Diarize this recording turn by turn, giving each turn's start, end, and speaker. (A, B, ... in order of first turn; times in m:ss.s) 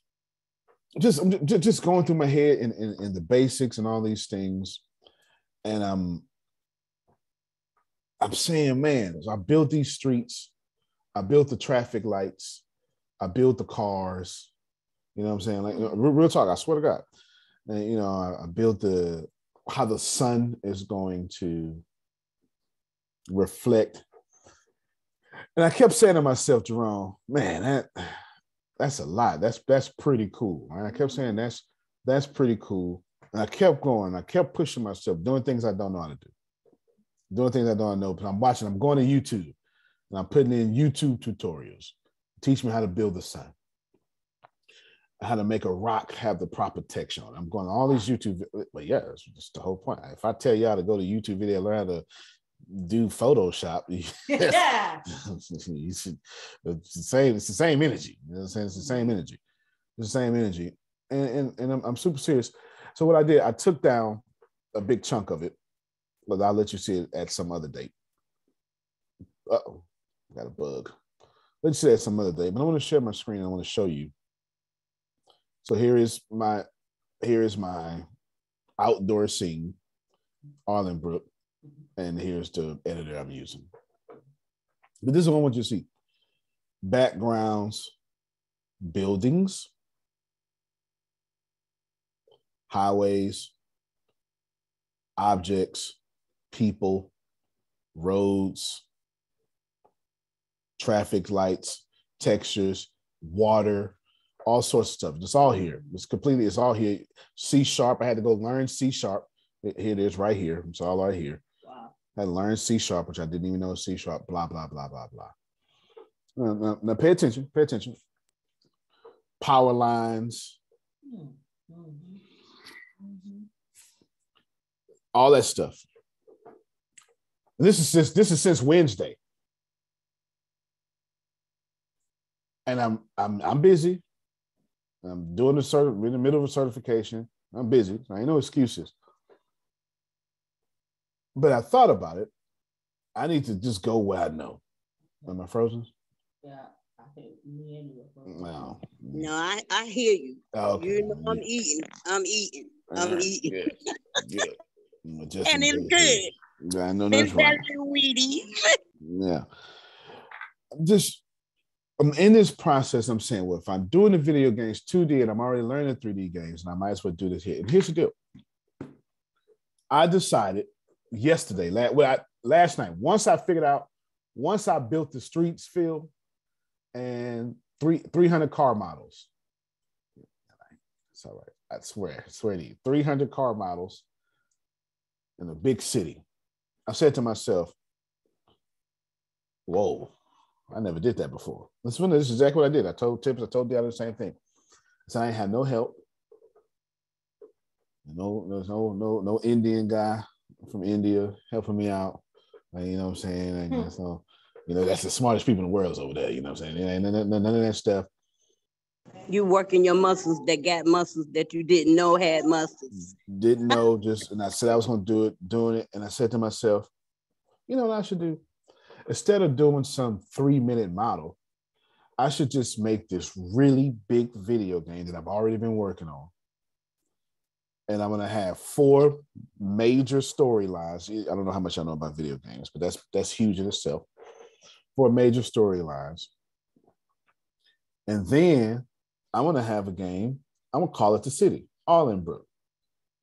0:01.0-0:04.8 A
0:05.6-0:06.2 A
0:08.2-0:10.5 A
0:11.2-0:12.6 A
0:13.2-0:14.5 A
0:15.2-0:17.0 A
0:17.7-0:21.8 A
0:23.3-0:24.0 A
0:25.6-0:28.2 A
0:28.8-0:36.3 A
0:37.3-0:39.6 A
0:40.1-0:43.5 A
0:45.2-0:52.0 A
0:52.7-0:59.4 A
0:54.3-0:55.0 B
0:58.8-0:59.1 B
1:00.0-1:04.2 A
1:04.8-1:05.6 A
1:06.3-1:07.9 A
1:09.5-1:09.8 A
1:10.3-1:11.0 A
1:11.6-1:14.1 A
1:15.6-1:16.7 A
1:17.2-1:18.1 A
1:18.8-1:19.8 A
1:20.7-1:21.2 A
1:22.0-1:23.7 A
1:25.0-1:25.9 A
1:26.8-1:27.9 A
1:28.8-1:29.7 A
1:32.7-1:33.5 A
1:35.2-1:36.0 A
1:36.5-1:37.1 A
1:38.0-1:38.8 A
1:40.8-1:51.4 A
1:51.6-1:51.9 B
1:52.2-1:55.3 A
1:56.4-1:58.0 A
1:59.4-2:00.6 A
2:01.1-2:02.2 B
2:03.0-2:03.4 B
2:05.1-2:05.8 A
2:07.6-2:09.2 A
2:12.7-2:14.0 A
2:15.0-2:18.9 A
2:21.4-2:22.3 A
2:23.2-2:24.6 A
2:25.3-2:25.9 A
2:26.4-2:28.6 B
2:28.3-2:29.3 A
2:29.1-2:33.7 C
2:30.5-2:31.4 A
2:32.9-2:34.5 A
2:35.0-2:37.6 A
2:35.4-2:36.3 C
2:37.1-2:38.8 C
2:39.0-2:39.4 A
2:40.8-2:41.2 A
2:42.0-2:48.1 A
2:49.9-2:56.1 A
2:56.9-2:59.3 A
3:01.1-3:04.0 A
3:05.4-3:06.2 A
3:06.9-3:07.7 A
3:09.7-3:10.1 A
3:10.7-3:14.4 A
3:15.1-3:16.0 A
3:18.1-3:22.2 A
3:22.7-3:28.1 A
3:29.3-3:33.1 C
3:33.3-3:36.9 A
3:37.7-3:38.4 A
3:39.1-3:41.4 A
3:42.2-3:46.3 A
3:47.9-3:54.1 A
3:55.0-3:56.3 A
3:58.1-4:02.4 A